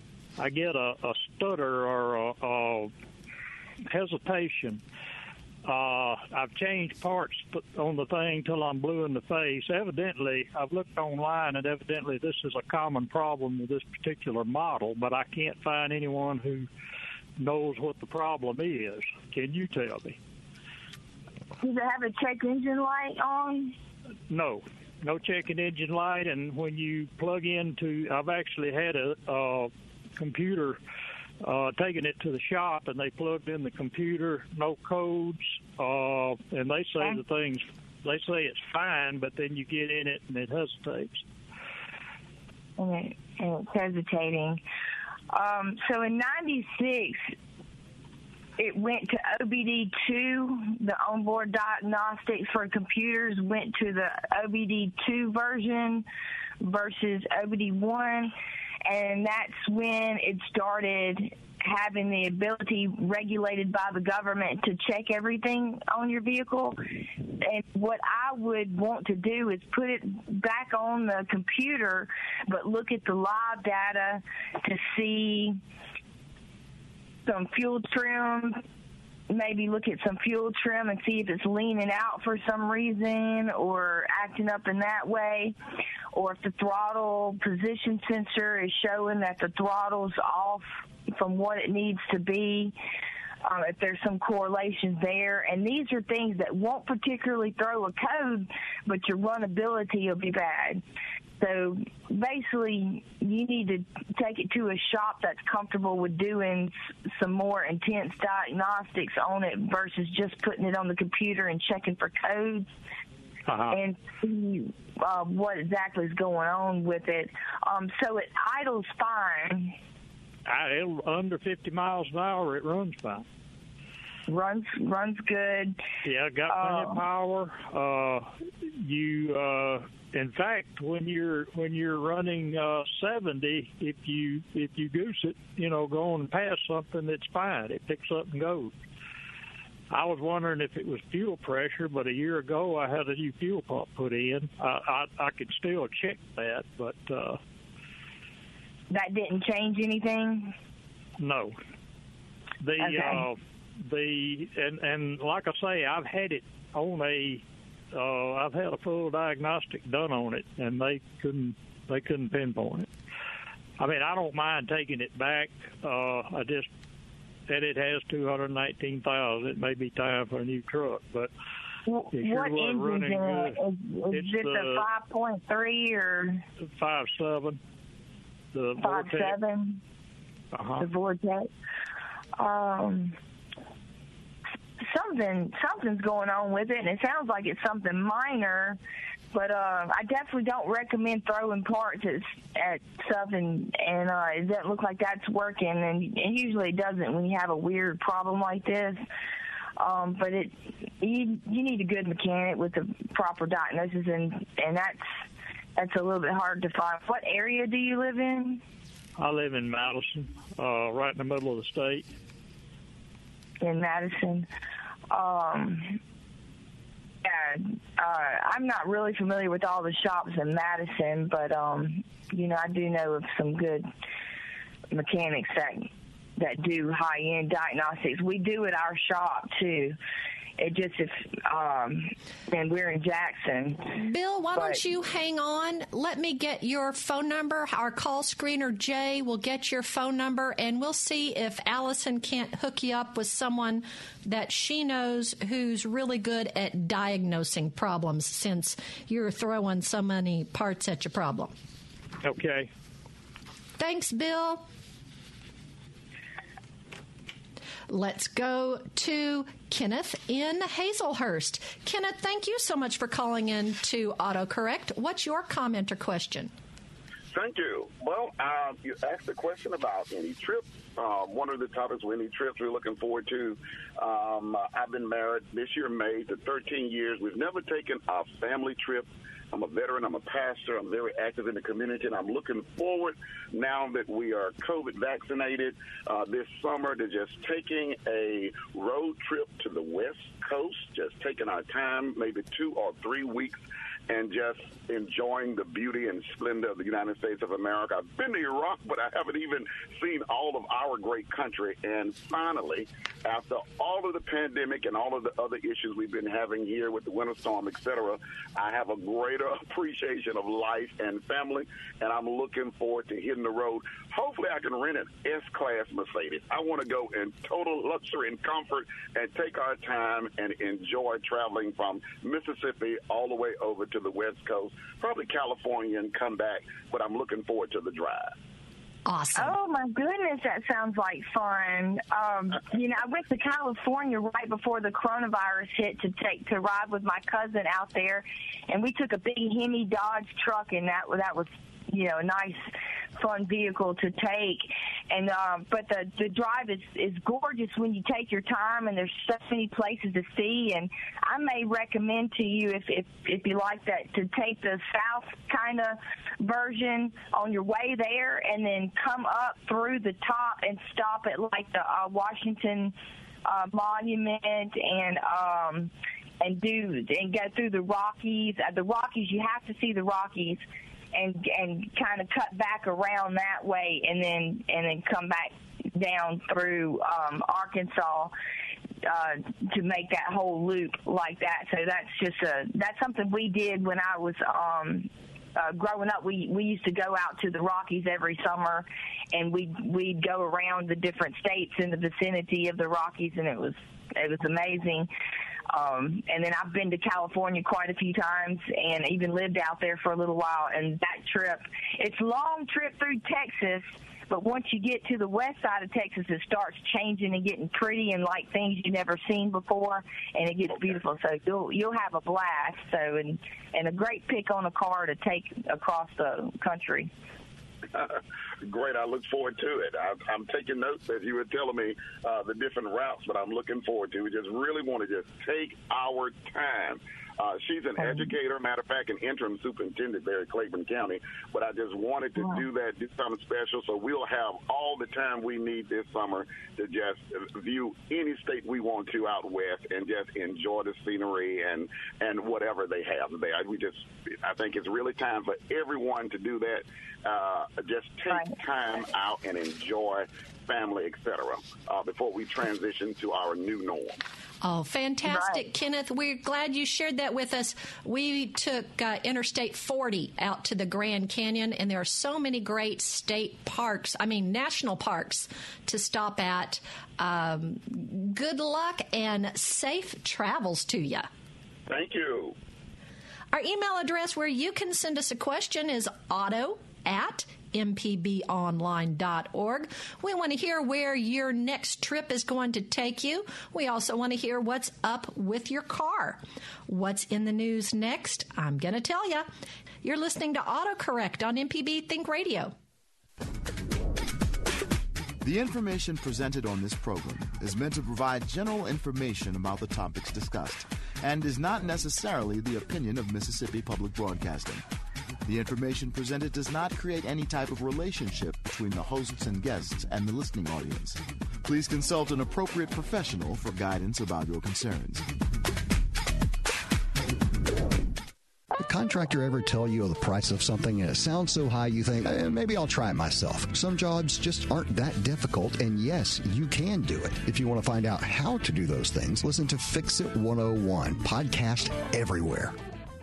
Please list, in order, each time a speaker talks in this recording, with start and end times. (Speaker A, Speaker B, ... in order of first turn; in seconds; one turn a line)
Speaker A: 0.4-2.9
Speaker A: 3.9-4.8
Speaker A: 5.7-16.7
Speaker A: 17.4-20.2
Speaker B: 21.6-23.8
Speaker A: 24.3-30.8
Speaker A: 31.4-41.2
Speaker B: 42.8-44.6
Speaker B: 45.3-47.3
Speaker B: 48.6-56.0
Speaker B: 56.6-58.3
Speaker B: 58.9-66.8
Speaker B: 67.4-75.6
Speaker B: 77.3-78.6
Speaker B: 79.3-85.5
Speaker B: 86.1-92.7
Speaker B: 93.4-100.8
Speaker B: 101.4-112.7
Speaker A: 113.5-113.8
Speaker B: 113.7-119.8
Speaker A: 120.5-123.2
Speaker B: 124.3-125.8
Speaker A: 126.0-138.7
Speaker B: 126.5-127.0
Speaker A: 139.9-147.4
Speaker B: 148.9-150.5
Speaker A: 151.2-151.6
Speaker A: 152.6-162.9
Speaker B: 152.8-153.2
Speaker A: 163.8-166.7
Speaker A: 167.5-171.3
Speaker B: 171.9-176.4
Speaker A: 172.1-174.9
Speaker A: 176.6-177.6
Speaker A: 178.5-179.4
Speaker B: 178.8-179.8
Speaker A: 180.5-180.9
Speaker B: 180.8-181.5
Speaker B: 182.4-183.2
Speaker B: 184.8-188.8
Speaker B: 189.3-199.0
Speaker B: 199.8-205.1
Speaker B: 205.8-208.6
Speaker A: 209.2-212.1
Speaker B: 213.6-214.5
Speaker B: 215.1-216.0
Speaker B: 217.2-223.9
Speaker B: 224.9-230.0
Speaker B: 230.6-233.9
Speaker C: 234.0-251.5
Speaker B: 234.6-234.8
Speaker A: 252.2-252.7
Speaker C: 253.8-254.6
Speaker C: 257.9-266.5
Speaker D: 267.3-328.4
Speaker C: 329.1-329.6
Speaker B: 329.4-362.9
Speaker B: 363.4-370.6
Speaker B: 371.1-378.3
Speaker B: 379.0-395.1
Speaker B: 395.7-417.1
Speaker D: 417.9-454.2
Speaker B: 428.0-428.3
Speaker C: 454.6-471.3
Speaker B: 455.3-455.6
Speaker D: 471.9-472.6
Speaker C: 473.5-489.5
Speaker C: 490.0-492.7
Speaker E: 495.4-504.8
Speaker E: 505.5-515.3
Speaker F: 518.8-532.8